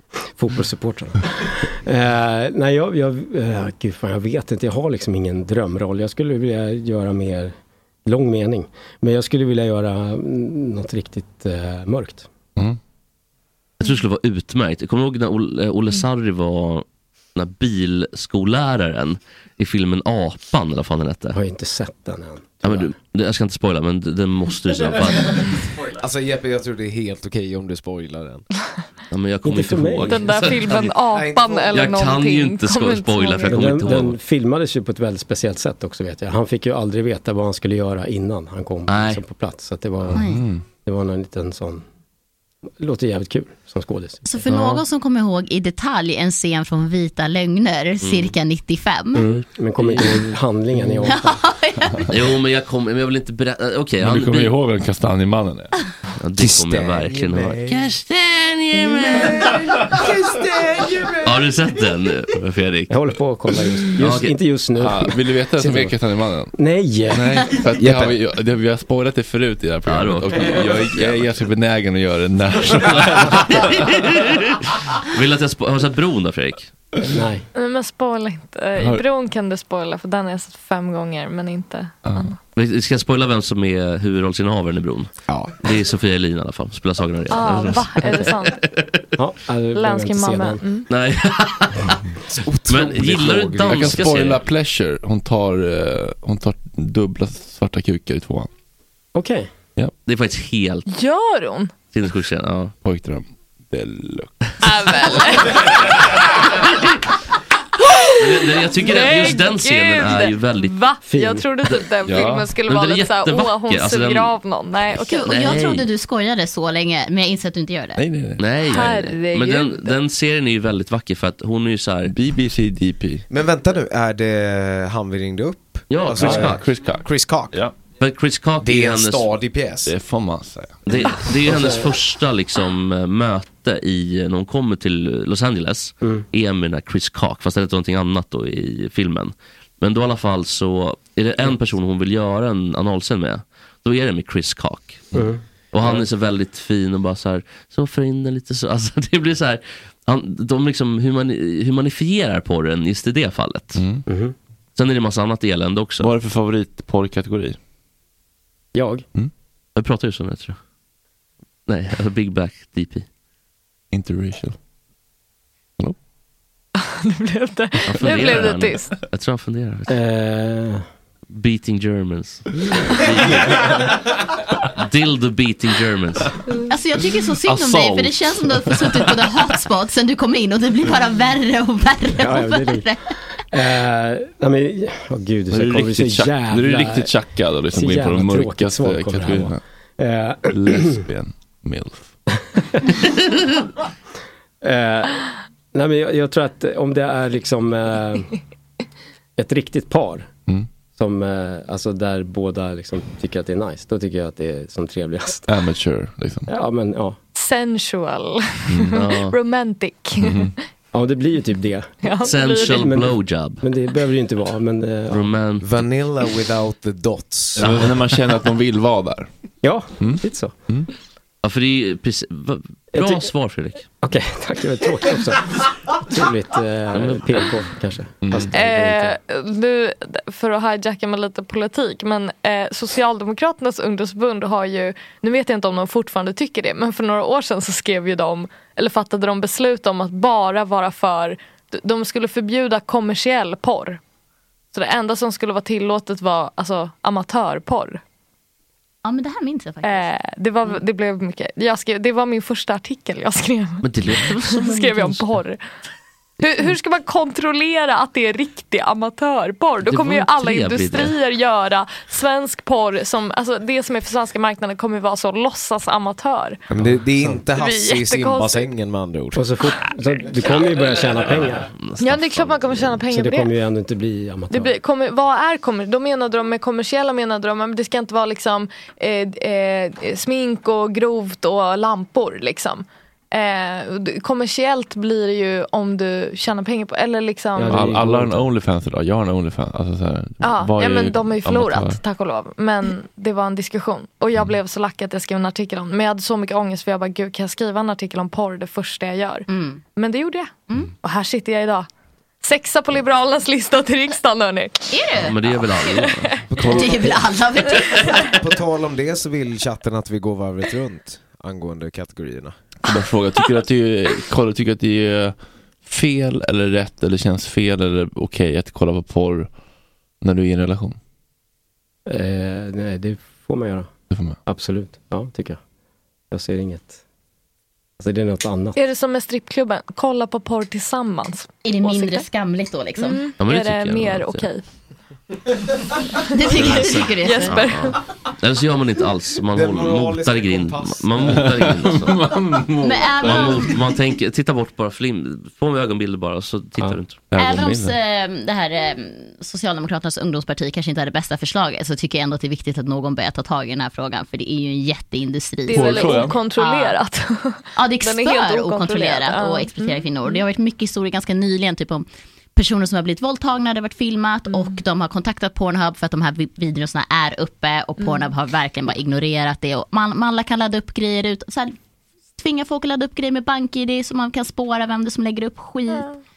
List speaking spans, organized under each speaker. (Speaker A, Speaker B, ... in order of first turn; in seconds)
Speaker A: 0.4-7.5, 8.1-12.3, 21.3-22.9, 29.4-30.4, 33.5-41.8, 42.8-44.9, 49.1-51.4, 62.9-66.0, 66.6-67.4, 77.1-77.4, 89.2-90.6, 99.2-99.5, 111.0-111.5, 131.5-131.9, 145.1-146.0, 154.1-154.3, 158.8-159.1, 169.9-170.8, 182.1-182.9, 183.5-187.1, 187.7-191.0, 194.6-198.3, 199.4-200.3, 201.0-205.5, 206.5-207.2, 210.9-215.3, 219.6-220.6, 222.9-223.3, 224.0-229.2, 267.1-267.4, 269.3-271.7, 272.6-274.8, 287.6-288.5, 322.1-323.9, 324.5-325.6, 326.3-327.0, 328.0-328.8
Speaker B: 13.8-21.4, 22.6-25.7, 29.1-31.0, 31.7-34.2, 38.9-39.2, 48.0-48.4, 52.1-54.5, 56.2-59.8, 61.2-63.0, 64.0-64.4, 69.9-71.2, 72.6-76.7, 82.5-89.0, 90.9-92.0, 92.7-94.5, 100.1-100.9, 101.9-102.7, 108.2-110.8, 112.6-115.9, 118.4-122.2, 125.9-126.7, 128.0-129.3, 130.9-145.2, 145.7-153.8, 154.8-156.1, 159.8-160.6, 161.7-163.1, 167.8-169.9, 171.3-174.1, 174.8-176.3, 208.9-209.4, 212.2-213.7, 215.1-215.8, 221.4-223.8, 226.9-227.6, 253.8-254.8, 259.8-261.2, 271.3-273.0, 305.2-306.4, 307.7-308.4, 333.4-334.5, 336.5-342.2, 343.2-347.6
Speaker C: 25.9-28.5, 30.7-31.9, 56.4-57.9, 59.4-61.4, 67.8-68.1, 92.3-94.3, 123.3-127.6, 128.6-129.9, 215.6-217.9, 266.7-269.5, 306.5-306.9, 308.4-312.6, 339.5-341.6
Speaker D: 30.1-33.9, 77.5-82.3, 87.3-88.6, 89.7-90.9, 100.9-101.8, 104.6-106.1, 107.8-115.6, 118.7-119.9, 166.8-169.0, 207.3-210.5, 212.0-212.9, 228.5-244.0, 244.7-248.0, 249.8-253.9, 254.4-255.6, 256.4-266.6, 267.6-268.7, 272.0-273.5, 274.5-287.7, 290.4-301.9, 302.4-305.2, 305.8-306.4, 328.8-332.3, 333.0-334.6, 336.5-338.0, 355.7-360.4, 364.5-364.8, 368.0-368.3, 375.9-376.2
Speaker E: 40.1-40.5, 44.3-49.2, 51.1-52.1, 115.1-118.0, 176.7-183.1, 249.0-250.1, 254.2-255.2, 299.5-299.8, 300.7-300.9, 304.9-305.6, 306.6-308.3, 331.6-333.2, 336.3-337.7, 342.8-343.8, 347.4-357.0, 357.8-371.8, 372.4-376.1
Speaker F: 40.1-40.6, 54.0-55.7, 64.8-66.5, 67.1-73.7, 78.8-79.0, 82.0-82.3, 93.7-98.5, 102.8-104.6, 112.0-112.5, 118.0-118.4, 122.1-123.3, 126.2-127.7, 129.8-130.8, 153.8-154.1, 156.0-157.6, 163.9-164.6, 177.4-179.1, 185.5-189.6, 190.5-192.1, 205.5-206.5, 208.7-209.0, 210.2-210.6, 217.6-219.3, 220.0-220.9, 228.2-228.5, 287.6-292.0, 306.6-307.2, 312.9-319.5, 320.2-321.0, 324.1-324.4, 341.4-343.7, 347.3-347.9, 355.7-356.4